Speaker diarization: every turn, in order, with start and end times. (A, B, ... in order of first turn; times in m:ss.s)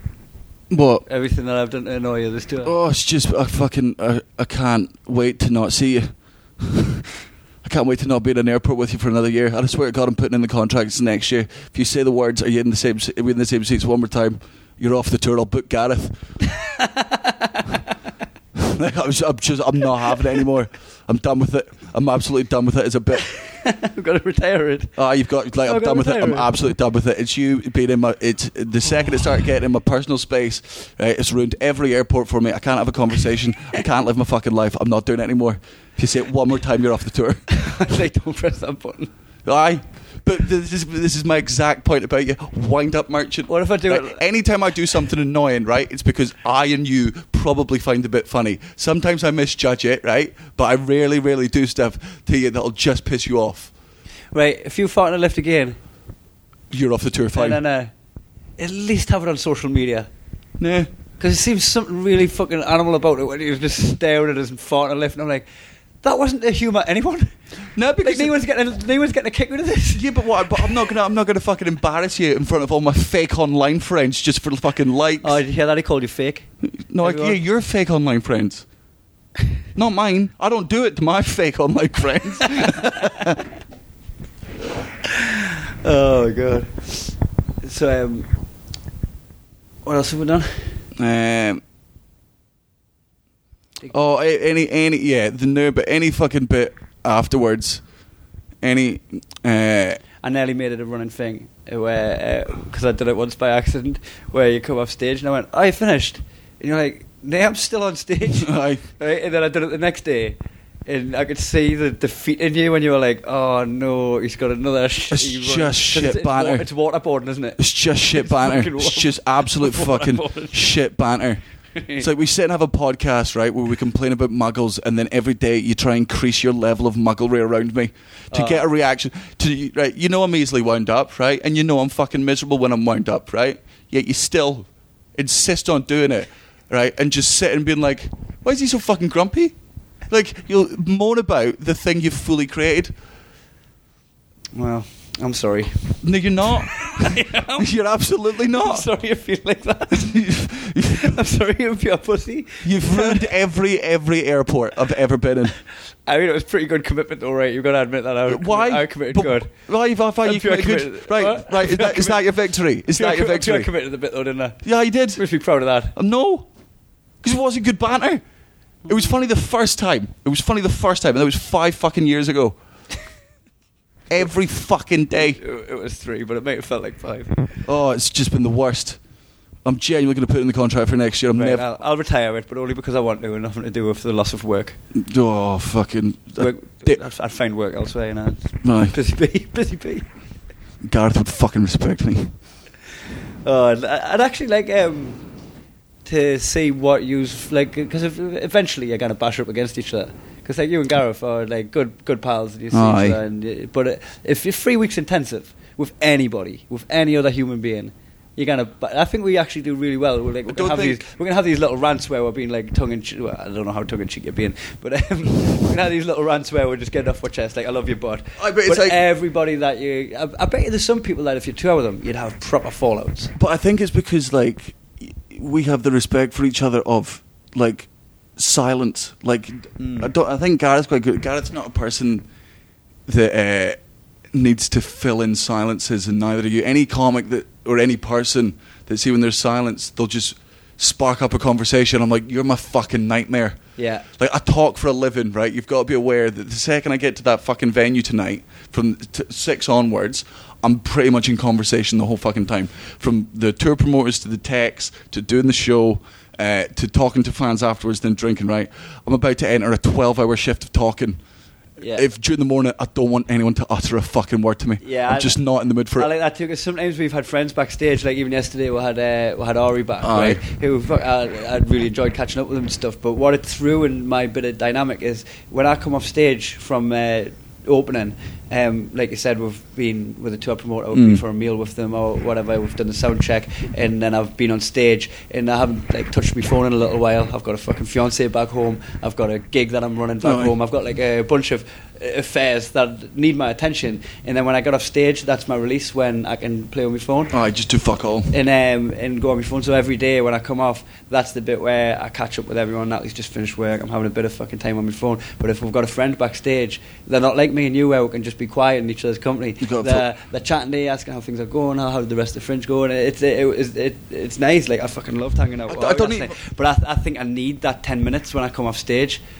0:00.7-0:01.0 A
0:01.0-0:02.7 B
0:02.6-0:16.2 A
0:16.5-0:17.9 B
0:18.6-0:23.3 A
0:23.4-0:25.0 B
0:25.0-0:37.4 A
0:25.6-0:26.5 B
0:37.5-0:39.1 B
0:39.4-0:53.7 A
0:43.5-0:44.2 B
0:54.3-0:55.8 B
0:56.7-0:57.6 A
0:57.3-0:57.9 B
0:58.6-1:00.1 B
1:00.6-1:00.9 A
1:01.2-1:05.5 B
1:06.0-1:07.4 B
1:07.7-1:08.3 A
1:08.0-1:10.8 B
1:09.9-1:15.4 A
1:15.2-1:16.5 B
1:16.6-1:18.6 A
1:17.0-1:17.4 B
1:19.7-1:23.4 A
1:25.1-1:28.3 B
1:29.8-1:30.8 B
1:31.0-1:31.6 A
1:33.9-1:37.8 A
1:38.6-1:40.0 A
1:40.2-2:00.6 B
1:48.4-1:48.8 A
1:55.1-1:56.6 A
1:57.6-2:01.4 A
2:01.7-2:02.1 B
2:02.0-2:19.5 A
2:08.3-2:08.6 B
2:20.1-2:22.9 A
2:24.5-2:27.7 B
2:26.0-2:28.8 A
2:28.5-2:33.3 B
2:29.9-2:31.2 A
2:32.6-2:35.6 A
2:36.0-2:39.5 B
2:38.3-2:43.7 A
2:40.2-2:42.3 B
2:42.9-2:45.9 B
2:44.6-2:45.2 A
2:45.9-2:46.5 A
2:47.2-2:48.2 A
2:48.8-2:52.6 A
2:54.1-2:55.4 A
2:55.1-2:57.6 B
2:57.6-2:59.0 A
2:59.6-3:01.6 A
3:01.3-3:04.8 B
3:04.9-3:07.0 A
3:06.4-3:10.1 B
3:08.6-3:08.9 A
3:10.8-3:12.3 A
3:13.4-3:15.2 B
3:16.0-3:43.3 B
3:22.7-3:23.2 A
3:30.5-3:31.0 A
3:38.4-3:39.0 A
3:43.3-3:52.2 A
3:49.8-3:50.1 B
3:53.1-3:53.8 A
3:54.3-4:03.6 A
4:03.8-4:04.0 B
4:04.2-4:21.2 A
4:21.8-4:22.0 B
4:21.9-4:26.1 A
4:24.8-4:25.4 B
4:25.9-4:57.4 B
4:30.0-4:30.4 A
4:40.9-4:41.2 A
4:50.2-4:50.5 A
4:57.3-4:58.3 A
4:58.3-5:19.2 B
5:09.6-5:10.1 A
5:15.7-5:16.3 A